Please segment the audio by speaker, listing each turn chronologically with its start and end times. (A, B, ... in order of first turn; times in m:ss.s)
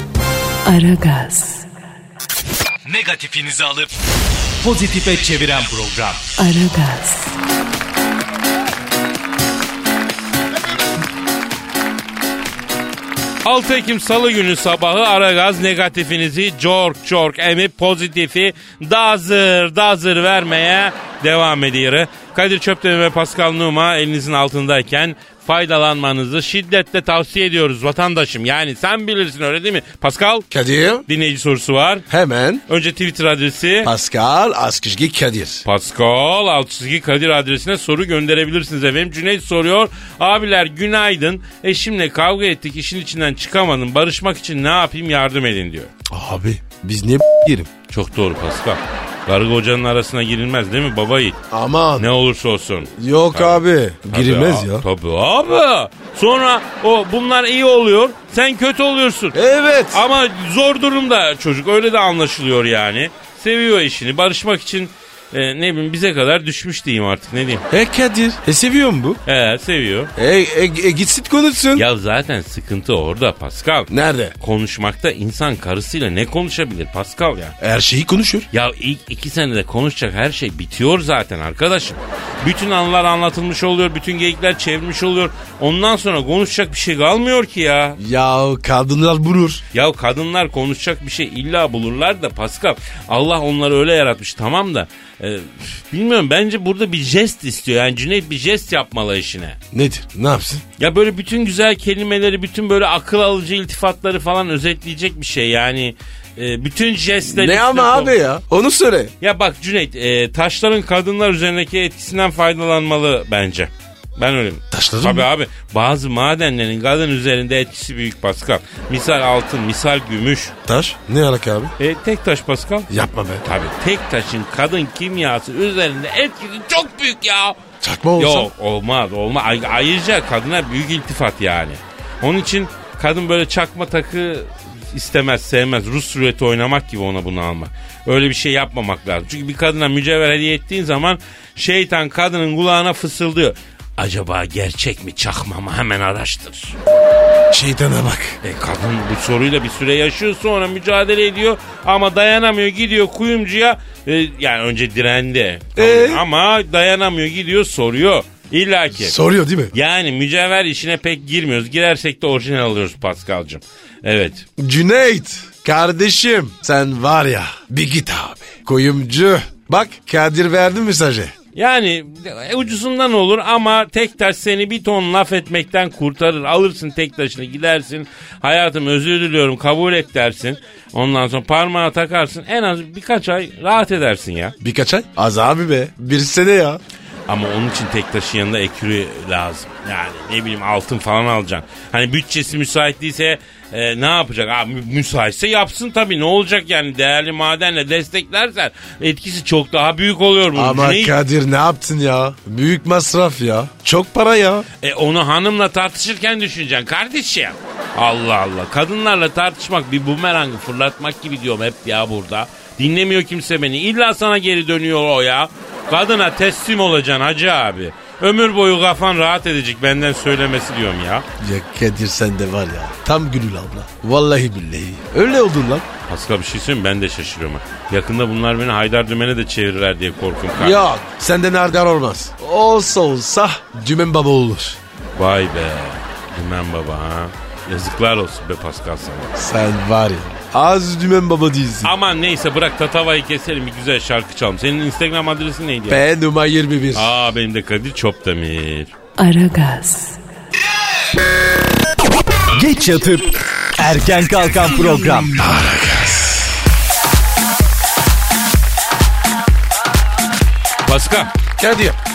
0:00.6-0:01.7 A
0:02.8-0:03.9 B
0:04.6-0:06.3 B
0:06.4-0:07.3 A
0:13.4-0:30.4 C
0:30.5-0:31.0 D
0:31.1-0:32.0 C
0:32.1-0:32.6 D
0:32.7-0:33.9 C
0:33.8-0:35.6 D
0:35.6-0:45.9 C
0:46.1-0:47.7 D
0:47.9-0:51.4 C
0:51.5-0:52.1 D
0:52.0-0:59.4 C
0:53.0-0:54.8 D
0:59.3-1:00.0 D
0:59.9-1:07.6 C
1:07.7-1:09.2 D
1:09.2-1:10.1 C
1:10.2-1:11.8 D
1:11.7-1:17.5 C
1:13.9-1:14.3 D
1:17.6-1:18.5 D
1:18.5-1:28.0 C
1:28.0-1:29.6 D
1:29.7-1:39.6 C
1:39.7-1:40.6 D
1:40.8-1:48.1 C
1:47.3-1:49.1 D
1:49.2-2:00.5 C
1:54.7-1:55.3 D
2:00.6-2:01.7 D
2:01.8-2:02.9 C
2:02.9-2:03.4 D
2:03.4-2:07.6 C
2:07.8-2:08.5 D
2:08.2-2:26.8 C
2:27.5-2:28.4 D
2:28.4-2:39.2 C
2:35.8-2:36.2 D
2:38.9-2:39.7 D
2:39.7-2:44.4 C
2:44.6-2:51.3 D
2:51.5-3:04.5 C
3:04.6-3:06.8 D
3:07.3-3:21.2 C
3:20.5-3:24.7 D
3:24.8-3:41.2 C
3:41.4-3:45.8 D
3:46.1-3:50.8 C
3:50.6-3:54.8 D
3:55.2-3:59.3 C
3:59.4-4:01.9 D
4:01.8-4:06.0 C
4:05.9-4:07.1 D
4:06.9-4:08.9 C
4:09.2-4:10.2 A
4:12.5-4:15.3 B
4:15.3-4:16.5 D
4:20.8-4:21.3 C
4:21.6-4:22.0 D